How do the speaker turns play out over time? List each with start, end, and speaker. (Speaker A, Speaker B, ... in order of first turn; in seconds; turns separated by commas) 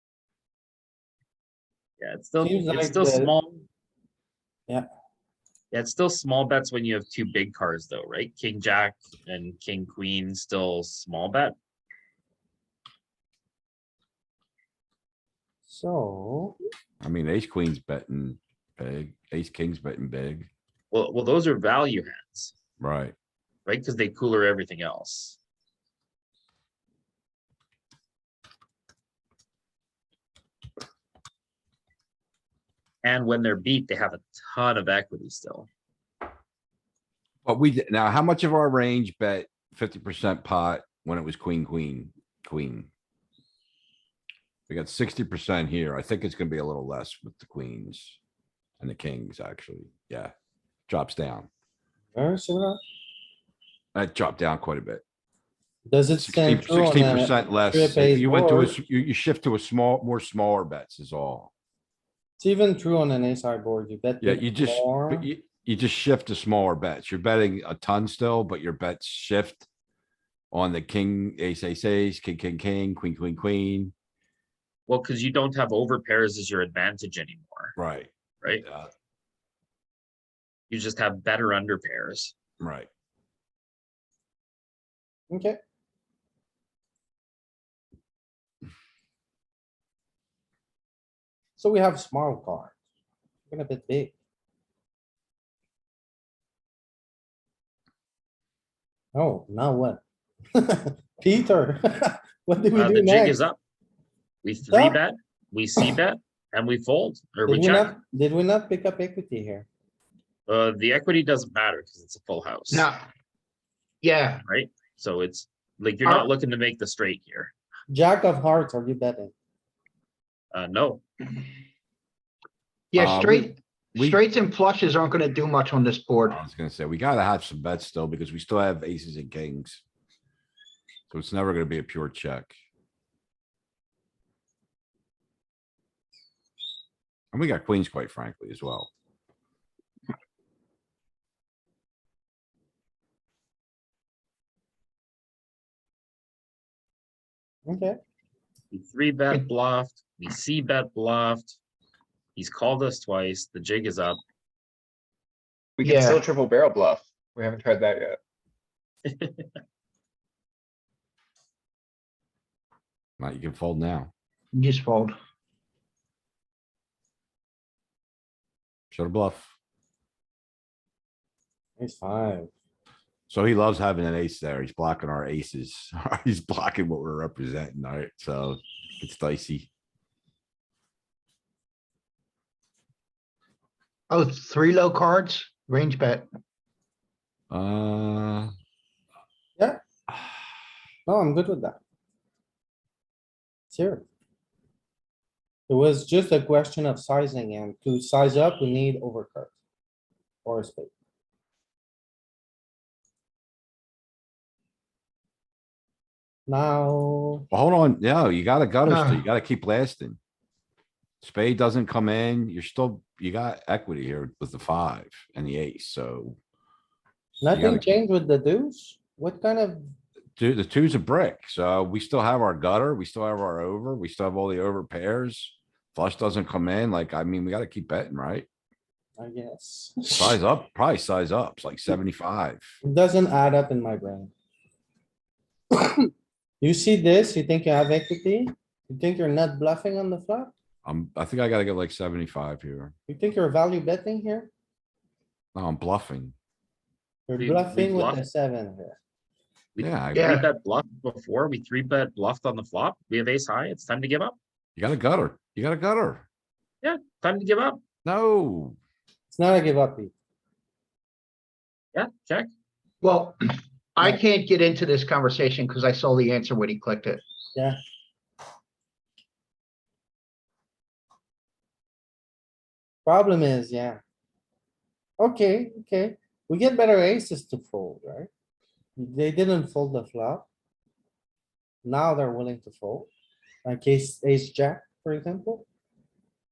Speaker A: 2.0-3.6, Speaker B: 2.4-3.3, Speaker A: 5.7-11.6, Speaker B: 15.7-16.6, Speaker C: 17.0-20.5, Speaker A: 20.9-22.5, Speaker C: 22.8-23.1, Speaker A: 23.7-25.4, Speaker A: 33.0-35.7, Speaker C: 37.5-42.9, Speaker C: 44.7-48.2, Speaker C: 48.8-50.3, Speaker C: 50.9-51.5, Speaker B: 52.1-52.8, Speaker C: 54.0-55.0, Speaker B: 55.9-58.8, Speaker C: 56.2-61.5, Speaker B: 62.4-65.3, Speaker C: 64.2-69.7, Speaker C: 70.5-73.9, Speaker A: 74.9-77.8, Speaker C: 77.8-78.1, Speaker C: 78.6-78.9, Speaker A: 80.7-82.3, Speaker C: 82.6-82.9, Speaker B: 85.3-85.6, Speaker B: 91.6-92.7, Speaker B: 93.5-94.1, Speaker B: 99.2-100.0, Speaker B: 100.5-103.4, Speaker A: 102.8-103.6, Speaker A: 104.4-107.9, Speaker B: 104.7-105.0, Speaker B: 107.5-109.7, Speaker A: 110.5-112.9, Speaker D: 112.7-113.0, Speaker D: 114.0-114.4, Speaker A: 114.5-117.5, Speaker D: 116.0-116.3, Speaker B: 117.9-119.3, Speaker A: 120.5-121.0, Speaker D: 122.9-126.4, Speaker C: 123.0-124.2, Speaker C: 126.3-129.8, Speaker C: 131.1-132.5, Speaker C: 137.3-138.9, Speaker B: 147.7-148.0, Speaker A: 148.7-151.6, Speaker A: 152.3-154.2, Speaker E: 155.8-158.2, Speaker D: 155.8-156.2, Speaker A: 159.1-159.5, Speaker C: 163.2-164.1, Speaker D: 164.5-165.1, Speaker C: 168.9-169.5, Speaker B: 171.8-172.5, Speaker C: 173.3-179.7, Speaker D: 184.1-186.3, Speaker C: 187.5-188.5, Speaker B: 191.1-191.8, Speaker B: 193.7-194.1, Speaker B: 195.7-199.5, Speaker B: 200.4-200.9, Speaker B: 206.5-207.5, Speaker C: 207.5-210.2, Speaker D: 208.8-209.2, Speaker C: 211.2-216.4, Speaker B: 217.4-219.8, Speaker C: 217.5-217.9, Speaker C: 220.4-228.5, Speaker B: 229.2-230.4, Speaker C: 230.2-232.8, Speaker B: 232.8-234.3, Speaker B: 235.8-236.1, Speaker B: 236.6-240.5, Speaker C: 240.8-242.9, Speaker B: 243.1-244.5, Speaker C: 245.6-246.3, Speaker B: 247.3-249.0, Speaker A: 247.4-248.2, Speaker A: 249.8-254.4, Speaker C: 249.8-250.4, Speaker D: 250.2-250.5, Speaker C: 254.8-256.3, Speaker A: 256.8-257.8, Speaker C: 258.1-258.8, Speaker B: 259.3-260.1, Speaker A: 261.9-262.5, Speaker D: 263.0-263.4, Speaker D: 264.0-267.2, Speaker B: 273.1-274.0, Speaker B: 275.2-278.3, Speaker B: 279.0-280.5, Speaker B: 281.8-283.1, Speaker B: 283.6-285.7